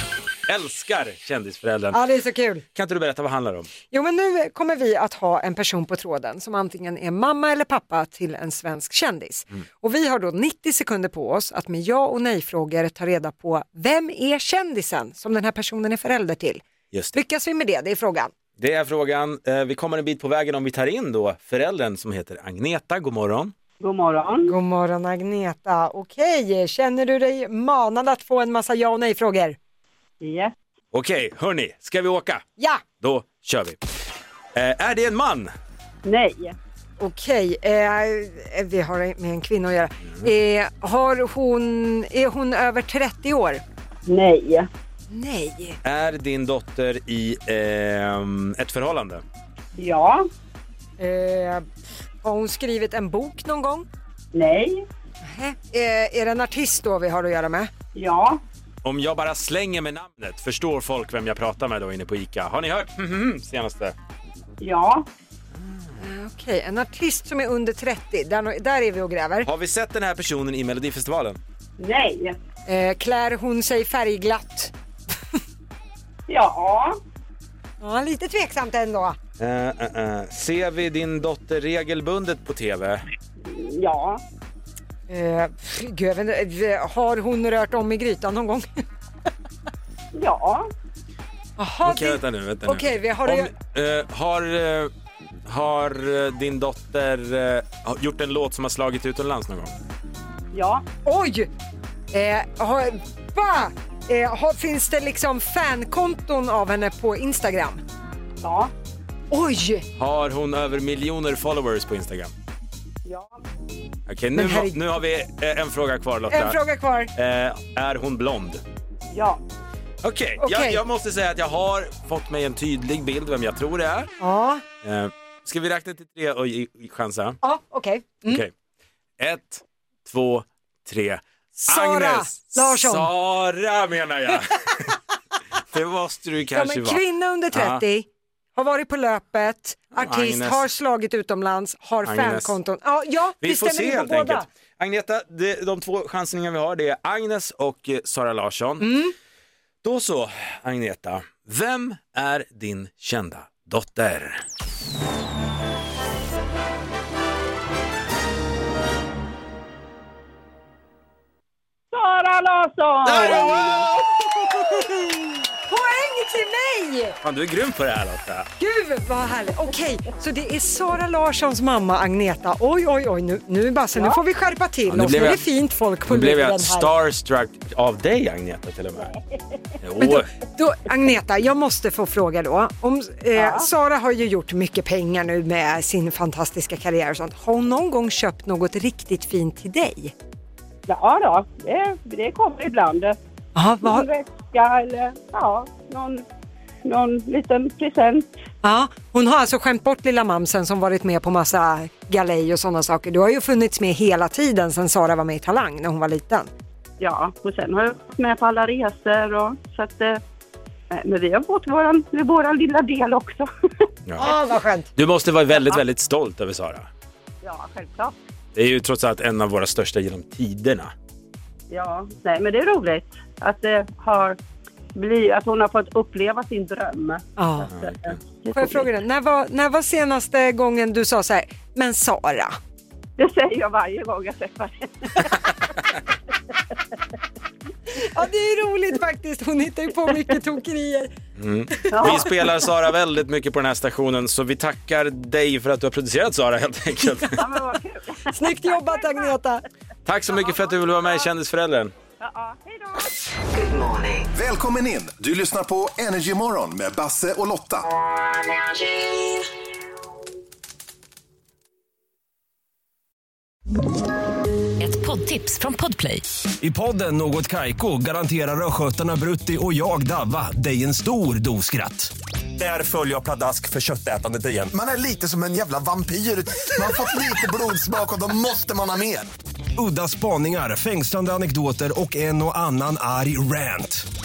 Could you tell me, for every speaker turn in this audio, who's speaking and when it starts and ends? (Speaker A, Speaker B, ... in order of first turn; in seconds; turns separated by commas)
Speaker A: 0.5-2.0, Speaker B: 1.9-2.6, Speaker A: 2.8-3.7, Speaker B: 3.9-18.3, Speaker A: 18.6-23.5, Speaker C: 23.8-24.6, Speaker B: 24.5-29.6, Speaker C: 30.2-30.5, Speaker A: 30.9-32.4, Speaker B: 32.6-32.8, Speaker A: 33.0-33.8, Speaker A: 34.5-35.5, Speaker C: 36.0-36.6, Speaker B: 37.0-43.6, Speaker C: 44.1-44.7, Speaker B: 45.1-45.8, Speaker A: 45.8-49.2, Speaker C: 49.8-50.2, Speaker B: 51.0-51.6, Speaker B: 52.2-53.9, Speaker C: 54.3-54.8, Speaker B: 55.2-57.7, Speaker C: 57.9-58.4, Speaker A: 58.8-64.0, Speaker C: 64.6-65.1, Speaker B: 66.0-69.5, Speaker A: 69.4-71.4, Speaker C: 71.8-72.4, Speaker B: 72.7-74.7, Speaker C: 76.3-77.0, Speaker B: 77.8-79.2, Speaker A: 79.4-83.0, Speaker C: 83.4-84.2, Speaker B: 85.1-88.7, Speaker C: 90.1-90.7, Speaker B: 91.6-93.5, Speaker A: 91.8-94.9, Speaker A: 95.5-99.7, Speaker C: 100.5-100.8, Speaker B: 101.0-101.5, Speaker B: 102.1-107.8, Speaker C: 108.4-108.7, Speaker B: 109.3-109.9, Speaker A: 110.0-112.3, Speaker C: 113.0-113.4, Speaker A: 114.1-116.6, Speaker B: 114.4-114.8, Speaker B: 116.3-117.1, Speaker A: 117.2-118.6, Speaker C: 119.1-119.4, Speaker A: 120.0-124.1, Speaker B: 120.4-120.8, Speaker B: 124.2-124.6, Speaker A: 124.8-127.4, Speaker B: 127.4-128.4, Speaker A: 128.2-128.5, Speaker A: 129.2-135.0, Speaker B: 131.6-133.1, Speaker A: 135.6-137.8, Speaker B: 136.5-144.5, Speaker A: 140.0-140.7, Speaker A: 142.0-142.6, Speaker A: 143.4-149.0, Speaker B: 148.8-149.1, Speaker A: 149.8-154.4, Speaker C: 161.9-163.9, Speaker A: 163.1-164.1, Speaker B: 164.5-167.2, Speaker A: 167.2-168.5, Speaker B: 168.6-176.9, Speaker A: 174.9-175.5, Speaker A: 176.1-179.1, Speaker A: 179.8-180.3, Speaker B: 180.0-190.1, Speaker C: 183.3-183.7, Speaker C: 190.9-193.2, Speaker B: 193.6-194.1, Speaker C: 193.8-196.2, Speaker C: 196.8-198.3, Speaker B: 198.6-206.5, Speaker C: 207.0-210.2, Speaker C: 210.9-213.9, Speaker B: 214.2-214.9, Speaker A: 215.0-216.9, Speaker C: 217.4-218.1, Speaker A: 218.6-220.9, Speaker C: 221.7-224.4, Speaker C: 224.9-228.9, Speaker B: 227.4-227.7, Speaker A: 227.7-228.0, Speaker B: 228.5-232.6, Speaker C: 233.2-235.5, Speaker B: 237.9-241.1, Speaker A: 241.4-247.4, Speaker B: 241.7-242.3, Speaker C: 241.9-242.3, Speaker C: 247.4-249.2, Speaker B: 248.3-249.6, Speaker A: 250.1-251.9, Speaker C: 250.5-251.1, Speaker C: 252.2-253.1, Speaker D: 253.7-254.2, Speaker E: 254.3-257.9, Speaker D: 264.8-266.2, Speaker F: 266.6-274.7, Speaker G: 272.6-279.3, Speaker F: 279.8-284.1